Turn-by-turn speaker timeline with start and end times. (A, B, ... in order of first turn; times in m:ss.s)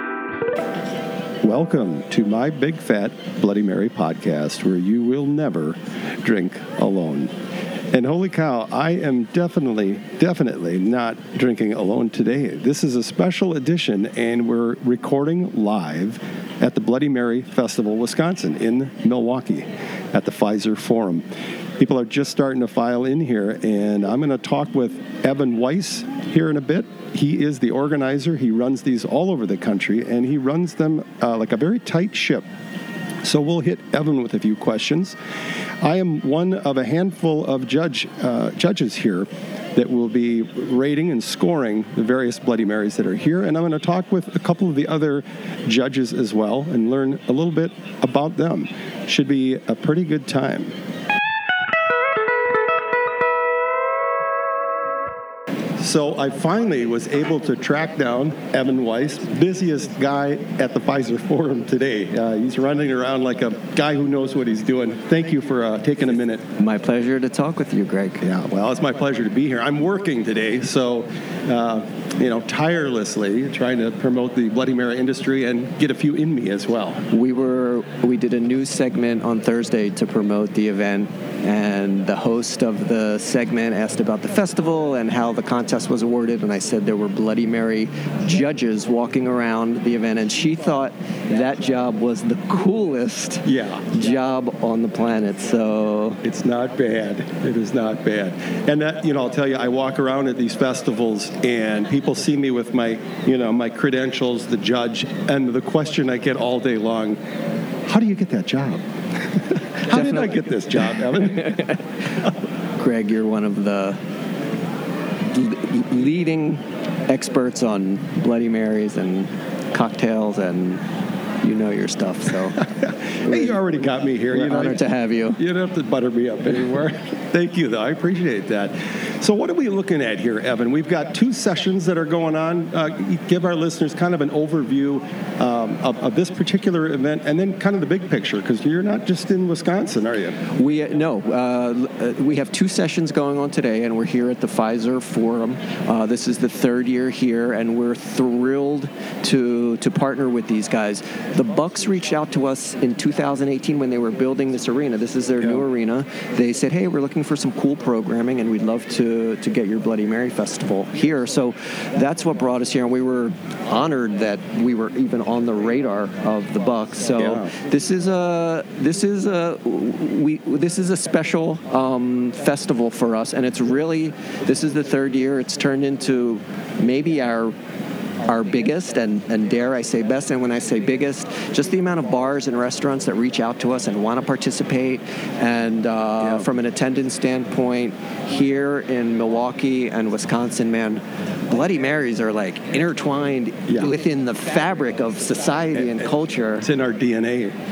0:01.4-0:07.3 A
0:07.9-0:21.2 A
0:21.8-0:32.4 A
0:33.2-0:35.2 A
0:35.8-0:50.7 A
0:55.8-1:06.5 A
1:06.6-1:08.2 B
1:08.2-1:17.0 A
1:17.1-1:36.2 B
1:33.4-1:33.9 A
1:36.2-1:47.2 A
1:47.8-1:48.8 A
1:49.8-1:51.6 A
1:49.9-1:50.4 B
1:50.9-1:51.8 B
1:52.8-1:54.0 B
1:55.3-2:00.8 B
2:01.4-2:02.6 B
2:02.7-2:20.4 A
2:03.2-2:03.6 B
2:04.3-2:05.4 B
2:20.5-2:57.5 B
2:47.2-2:47.5 A
2:58.2-3:16.6 B
3:06.2-3:06.5 A
3:15.7-3:16.0 A
3:16.6-3:17.5 A